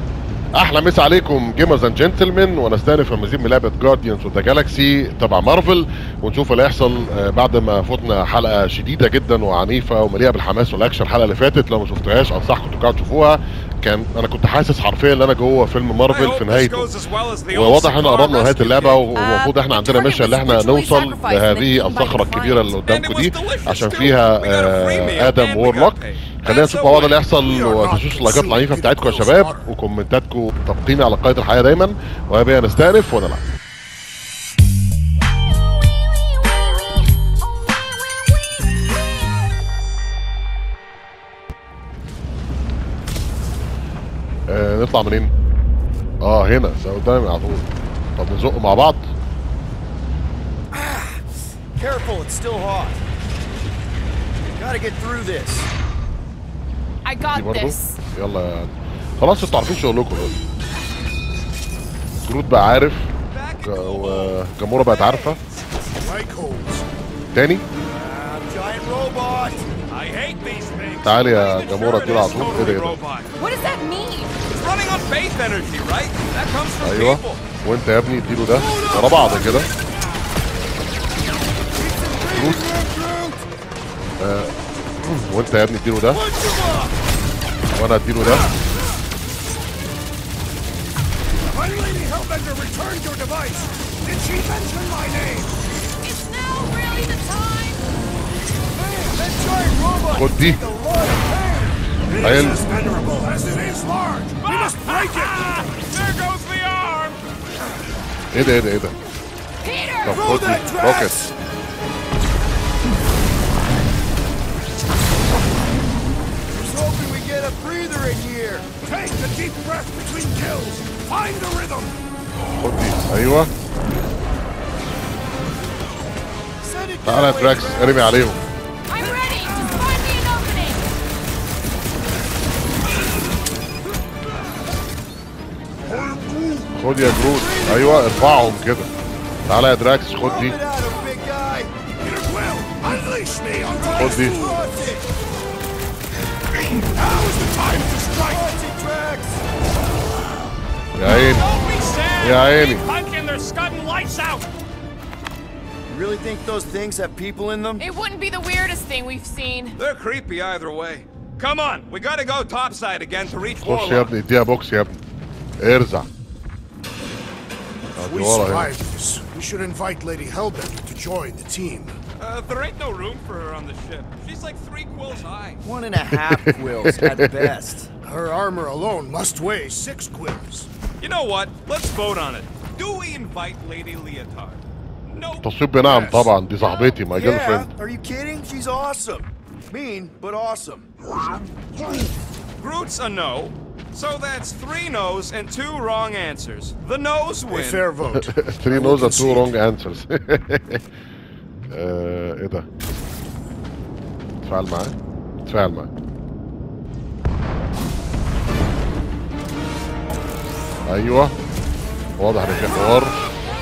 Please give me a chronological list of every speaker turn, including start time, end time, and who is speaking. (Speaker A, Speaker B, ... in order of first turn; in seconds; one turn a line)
Speaker A: 0.5-16.9
Speaker B: 16.1-19.1
Speaker A: 17.5-33.4
Speaker C: 19.1-22.7
Speaker B: 22.9-27.2
Speaker D: 27.4-29.7
Speaker A: 44.5-45.3
Speaker A: 46.2-49.1
Speaker E: 50.7-51.2
Speaker E: 51.8-53.0
Speaker E: 54.5-55.7
Speaker C: 57.0-58.0
Speaker A: 57.3-60.3
Speaker A: 62.2-63.1
Speaker B: 63.3-64.4
Speaker A: 63.6-65.4
Speaker B: 65.1-65.5
Speaker D: 66.0-66.9
Speaker A: 67.3-67.6
Speaker E: 67.9-69.7
Speaker B: 69.9-73.3
Speaker A: 71.0-73.0
Speaker C: 73.4-74.3
Speaker B: 74.5-77.4
Speaker A: 76.8-79.7
Speaker D: 78.6-79.5
Speaker E: 78.6-79.5
Speaker E: 81.8-83.3
Speaker D: 81.8-83.3
Speaker A: 82.3-82.6
Speaker A: 84.2-86.2
Speaker E: 86.1-86.9
Speaker D: 86.2-86.6
Speaker A: 87.7-88.5
Speaker D: 88.2-88.5
Speaker D: 91.5-95.6
Speaker C: 96.0-97.8
Speaker E: 98.7-101.9
Speaker A: 100.1-100.6
Speaker D: 102.0-105.7
Speaker A: 102.2-102.6
Speaker B: 104.4-107.2
Speaker A: 108.3-109.0
Speaker C: 109.6-110.3
Speaker A: 110.0-111.3
Speaker D: 110.1-111.3
Speaker E: 116.5-118.7
Speaker D: 118.8-121.9
Speaker A: 122.6-123.5
Speaker E: 126.6-128.4
Speaker A: 127.0-128.4
Speaker C: 128.9-130.9
Speaker D: 129.0-129.8
Speaker D: 135.8-136.7
Speaker A: 136.7-138.9
Speaker E: 137.0-138.5
Speaker A: 139.4-140.6
Speaker E: 140.2-141.7
Speaker D: 142.0-144.7
Speaker E: 143.7-145.1
Speaker A: 143.9-144.4
Speaker D: 146.7-148.6
Speaker E: 148.2-149.4
Speaker A: 150.9-151.5
Speaker B: 151.0-154.5
Speaker A: 152.2-152.8
Speaker E: 155.9-157.8
Speaker C: 157.8-159.8
Speaker B: 159.8-164.1
Speaker A: 163.6-165.0
Speaker A: 165.6-166.1
Speaker D: 167.9-171.9
Speaker A: 167.9-168.7
Speaker B: 172.2-175.6
Speaker E: 175.6-177.9
Speaker A: 176.1-177.5
Speaker D: 178.0-180.7
Speaker B: 181.0-185.5
Speaker A: 185.4-187.7
Speaker D: 185.8-186.3
Speaker E: 187.1-190.9
Speaker D: 191.1-192.1
Speaker B: 192.6-197.9
Speaker D: 197.5-199.5
Speaker A: 198.1-200.8
Speaker A: 201.7-202.7
Speaker A: 204.4-205.9
Speaker A: 210.9-211.3
Speaker A: 212.2-213.2
Speaker E: 212.7-213.0